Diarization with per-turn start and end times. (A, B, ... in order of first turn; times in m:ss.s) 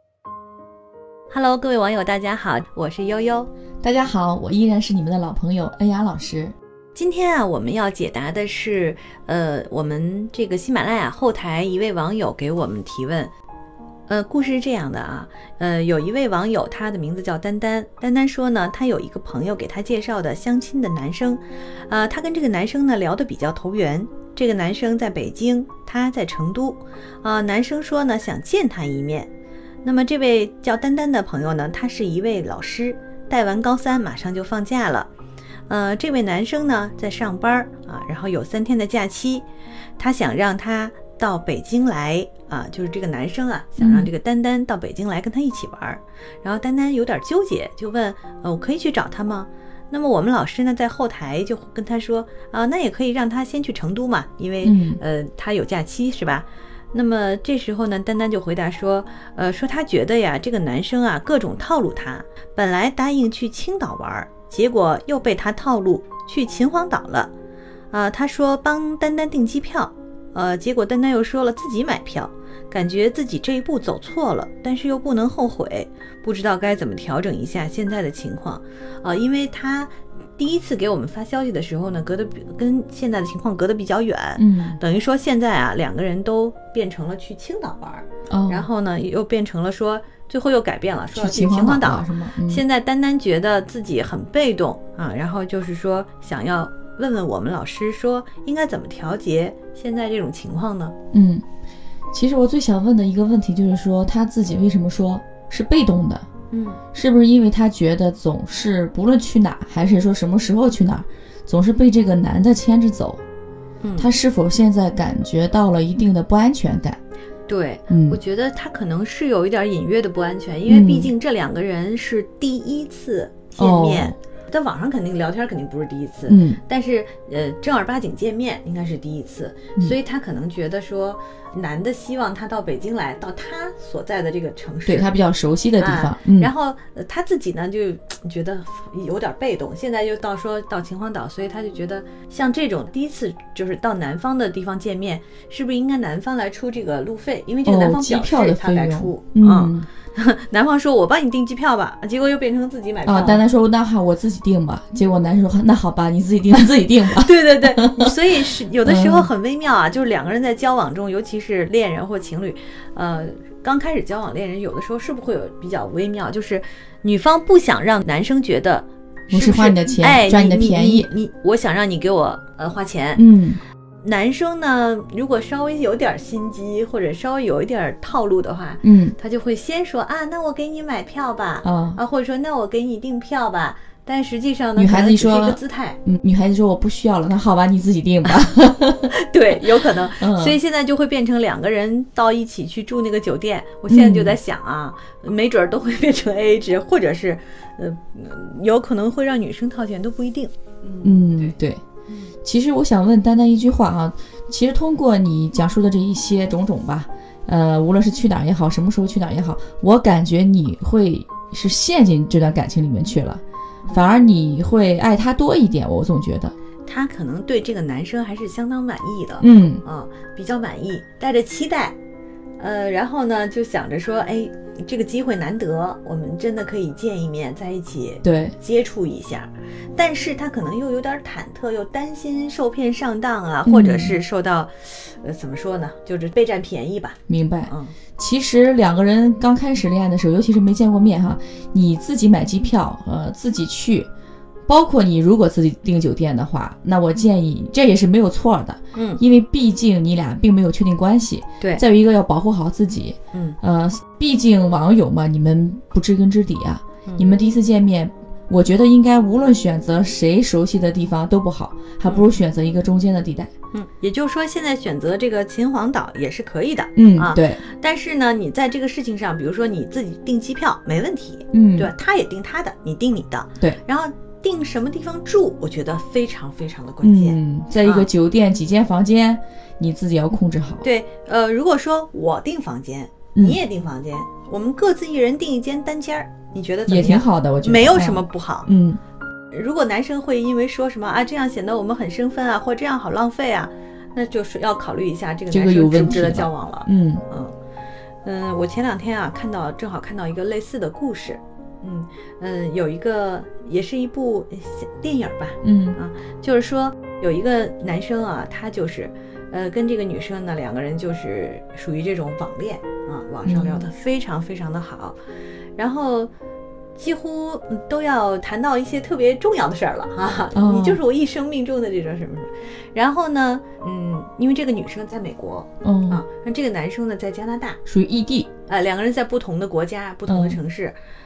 0:01.3-0:03.5 A
0:03.8-0:06.6 B
0:07.0-0:13.3 A
0:14.1-0:29.3 A
0:29.8-0:35.1 A
0:35.7-0:39.5 A
0:40.0-1:07.3 A
0:43.8-0:44.1 B
0:54.6-0:55.0 B
1:07.9-1:41.0 A
1:24.4-1:24.8 B
1:28.3-1:28.7 B
1:31.2-1:32.6 B
1:41.1-1:41.4 B
1:42.1-1:46.3 B
1:46.5-1:46.8 A
1:46.9-1:53.2 B
1:53.8-1:54.1 A
1:54.0-1:57.0 B
1:57.5-2:15.1 A
1:57.9-1:58.2 B
2:00.7-2:01.1 B
2:03.6-2:04.2 B
2:06.3-2:06.6 B
2:14.9-2:16.5 B
2:15.8-2:33.4 A
2:27.6-2:29.9 B
2:33.0-2:39.3 B
2:37.1-2:53.2 A
2:49.3-2:51.1 B
2:53.2-2:53.6 B
2:54.0-3:06.0 A
2:58.8-2:59.2 B
3:01.6-3:02.0 B
3:04.8-3:09.1 B
3:09.2-3:21.6 A
3:10.1-3:10.6 B
3:13.9-3:14.4 B
3:21.0-3:21.8 B
3:22.4-3:36.5 B
3:36.9-3:42.0 A
3:39.4-3:39.8 B
3:42.6-3:58.0 A
3:48.2-3:48.6 B
3:53.6-3:54.2 B
3:57.3-4:04.1 B
4:04.7-4:23.5 B
4:08.9-4:09.2 A
4:13.3-4:13.6 A
4:17.1-4:17.3 A
4:23.7-4:38.1 A
4:27.0-4:27.6 B
4:31.5-4:31.9 B
4:37.0-4:40.8 B
4:40.8-4:48.7 A
4:46.9-4:49.0 B
4:49.5-4:57.5 A
4:55.5-4:57.2 B
4:58.2-5:15.2 A
5:05.6-5:06.0 B
5:13.5-5:13.9 B
5:15.8-5:16.3 A
5:17.0-5:27.8 A
5:20.6-5:21.0 B
5:25.8-5:26.2 B
5:27.9-5:28.5 B
5:28.7-5:31.0 A
5:30.3-5:30.6 B